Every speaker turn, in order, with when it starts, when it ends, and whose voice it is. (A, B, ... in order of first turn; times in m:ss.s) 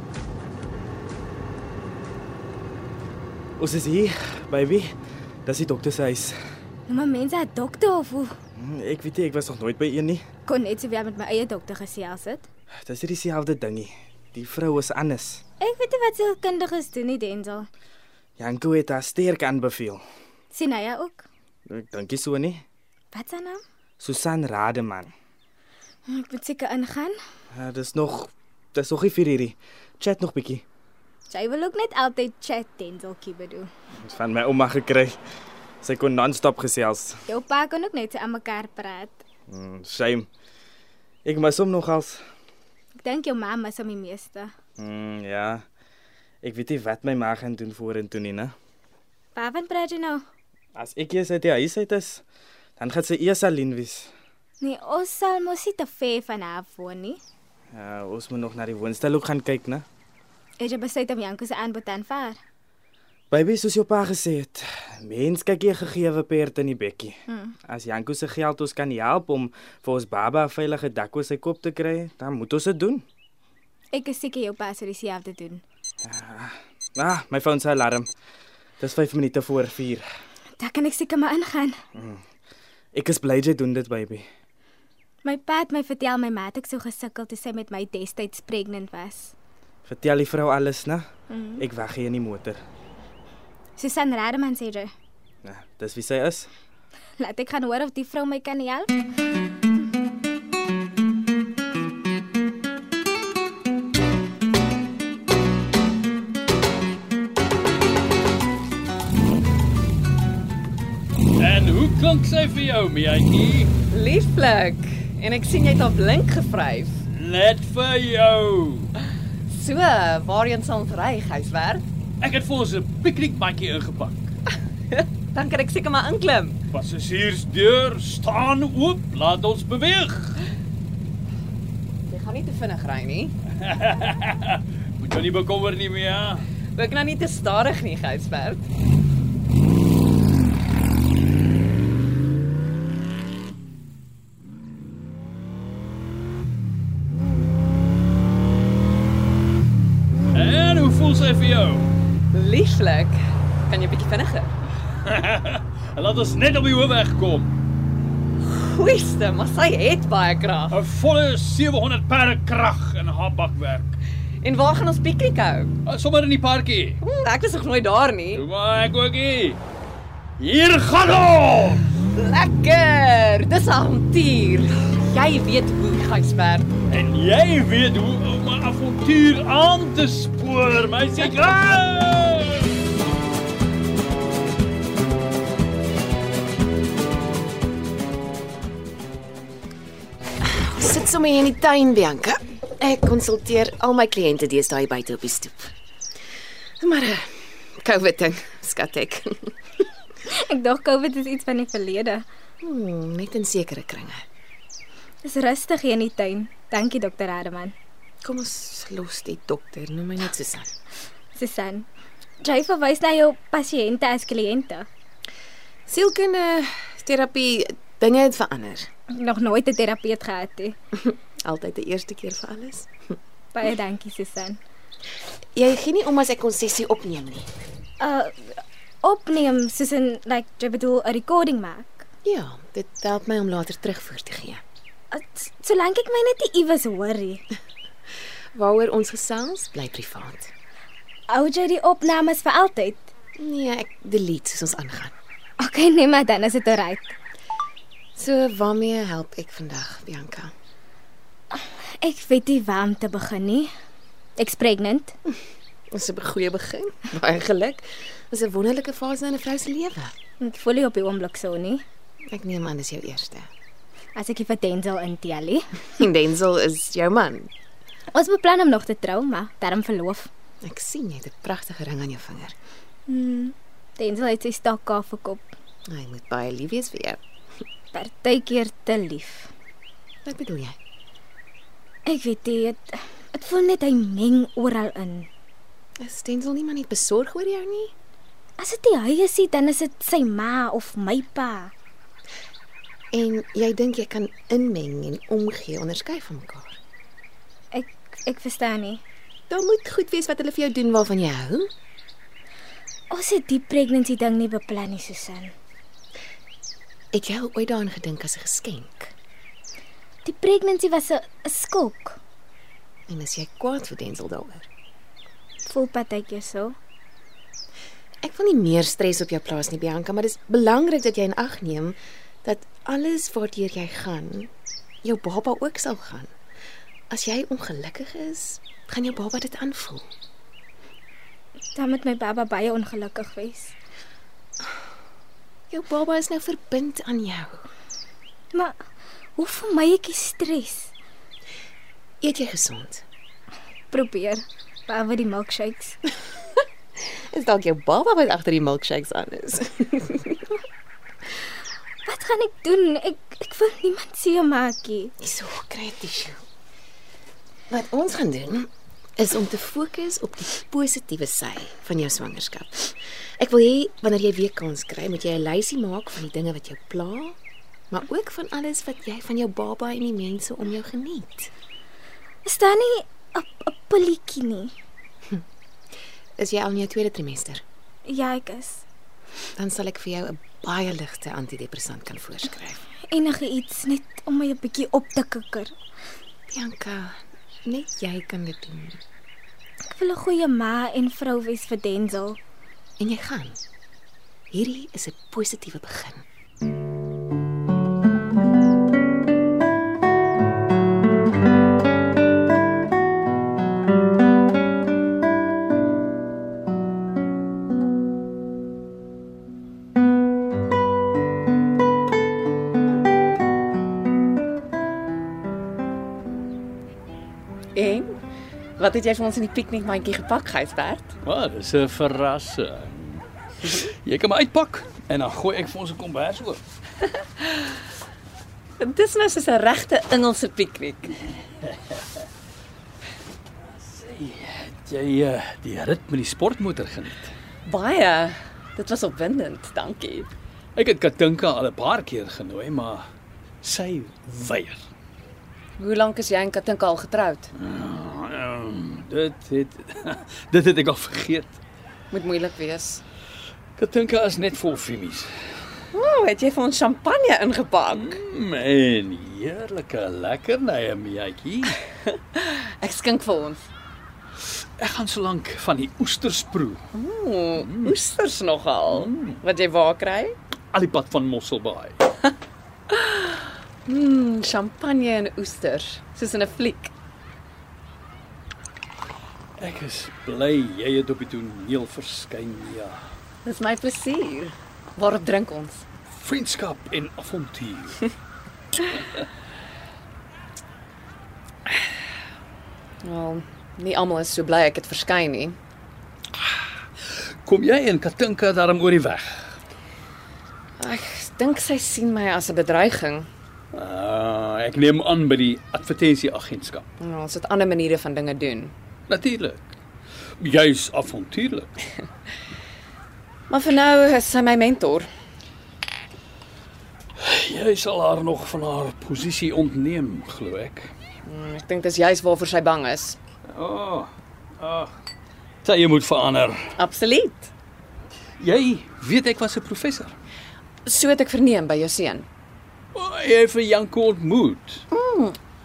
0:03.6-0:04.9 A
0:05.4-0:06.4 A
0:06.9-0:08.3 B
0:08.6-0:10.2 A
0:10.4-0:12.5 B
0:12.8-0:15.4 A
0:15.6-0:17.7 B
0:18.4-0:20.0 A
0:20.5-0:21.2 B
0:21.7-0:22.6 A
0:23.1-0:23.6 B
0:24.0-0:25.1 A
0:26.1-0:27.2 B
0:27.5-0:30.6 A
0:31.3-0:33.7 B
0:34.0-0:35.2 A
0:35.8-0:37.2 A
0:37.3-0:39.2 B
0:39.5-0:40.3 A
0:41.2-0:42.2 A
0:43.0-0:44.5 B
0:44.8-0:45.6 A
0:46.4-0:48.5 A
0:49.3-0:50.2 B
0:50.8-0:52.2 A
0:52.8-0:54.1 A
0:54.6-0:57.2 B
0:57.7-0:59.8 A
1:00.6-1:02.4 B
1:03.3-1:07.1 A
1:07.3-1:07.6 B
1:07.6-1:13.0 A
1:13.9-1:15.6 B
1:16.0-1:18.1 A
1:18.8-1:20.0 A
1:20.6-1:21.8 B
1:21.9-1:22.2 A
1:22.9-1:24.2 A
1:25.2-1:29.3 B
1:29.8-1:31.0 A
1:31.3-1:31.6 B
1:31.6-1:32.6 A
1:33.8-1:34.9 B
1:35.4-1:36.5 A
1:37.2-1:38.9 B
1:51.4-1:53.7 C
1:53.9-1:57.0 D
1:57.1-1:58.9 C
1:59.5-2:01.8 D
2:02.2-2:04.4 C
2:04.9-2:06.6 D
2:06.7-2:10.5 C
2:12.1-2:13.3 D
2:13.6-2:16.4 C
2:16.7-2:18.7 D
2:30.3-2:31.9 C
2:32.3-2:34.5 D
2:35.0-2:37.5 C
2:38.4-2:40.7 D
2:40.7-2:44.0 C
2:44.4-2:45.7 D
2:45.8-2:47.0 C
2:47.0-2:48.4 D
2:48.3-2:49.6 C
2:50.4-2:51.9 C
2:52.1-2:56.7 D
2:56.9-3:02.7 C
3:10.4-3:15.7 E
3:16.8-3:19.5 E
3:20.2-3:22.2 B
3:22.6-3:24.2 E
3:25.2-3:27.7 B
3:28.2-3:30.7 E
3:31.3-3:31.9 B
3:32.4-3:34.9 B
3:35.9-3:38.9 E
3:39.1-3:40.8 B
3:41.1-3:42.9 E
3:43.5-3:44.6 B
3:45.6-3:47.5 E
3:48.0-3:52.1 B
3:52.2-3:54.6 E
3:55.1-3:57.4 B
3:58.5-4:00.5 E
4:01.3-4:03.0 B
4:03.4-4:05.1 E
4:05.6-4:07.1 B
4:08.2-4:10.5 E
4:11.5-4:13.7 B
4:14.4-4:15.2 B
4:15.9-4:20.1 E
4:20.4-4:21.8 B
4:22.3-4:23.5 E
4:24.1-4:25.6 B
4:26.0-4:27.5 E
4:28.1-4:30.3 B
4:30.6-4:32.5 E
4:33.1-4:35.6 B
4:35.9-4:37.2 E
4:37.9-4:39.5 B
4:40.2-4:40.8 E
4:42.0-4:45.3 B
4:46.0-4:47.9 E
4:48.6-4:51.7 B
4:53.1-4:56.8 E
4:57.7-4:59.0 B
4:59.5-5:01.7 E
5:03.1-5:05.5 B
5:07.1-5:09.1 E
5:10.2-5:12.2 B
5:13.1-5:14.7 E
5:15.6-5:16.7 B
5:18.2-5:24.5 E
5:25.0-5:26.3 E
5:27.1-5:30.0 E
5:31.7-5:33.7 B
5:35.7-5:37.6 E
5:39.4-5:40.9 B
5:42.2-5:43.0 E
5:43.9-5:46.0 B
5:47.0-5:50.4 E
5:52.0-5:55.1 B
5:55.2-5:56.4 E
5:57.7-6:07.4 E
6:07.9-6:11.5 E
6:12.4-6:14.7 B
6:16.4-6:17.6 E
6:18.0-6:18.8 B
6:19.6-6:22.8 E
6:23.1-6:25.7 B
6:26.5-6:29.0 E
6:29.8-6:32.4 B
6:33.0-6:33.6 E
6:34.5-6:36.2 E
6:57.7-6:58.1 D
6:58.8-7:01.1 D
7:01.2-7:06.6 C
7:08.8-7:11.1 D
7:13.7-7:17.3 C
7:17.6-7:20.3 D
7:20.8-7:23.1 C
7:23.6-7:24.8 C
7:25.8-7:27.5 D
7:27.6-7:31.6 C
7:32.1-7:33.0 D
7:33.8-7:35.3 C
7:35.9-7:38.1 D
7:37.9-7:41.8 C
7:42.3-7:43.7 D
7:44.8-7:46.8 C
7:46.9-7:50.3 D
7:47.6-7:48.0 C
7:48.9-7:49.4 C
7:50.7-7:52.2 C
7:52.9-7:53.3 D
7:53.8-7:56.9 D
7:59.6-8:03.0 C
8:03.4-8:05.8 D
8:06.1-8:08.1 C
8:13.0-8:15.6 D
8:17.4-8:19.6 C
8:20.8-8:23.3 D
8:23.7-8:26.8 C
8:27.0-8:28.7 D
8:29.1-8:29.7 C
8:30.4-8:31.8 C
8:33.5-8:35.1 D
8:37.2-8:40.9 C
8:41.2-8:43.2 D
8:43.5-8:44.9 C
8:45.6-8:46.7 C
8:46.8-8:47.5 D
8:48.4-8:50.1 C
8:50.8-8:52.3 D
8:52.9-8:54.8 C
8:54.9-8:55.4 D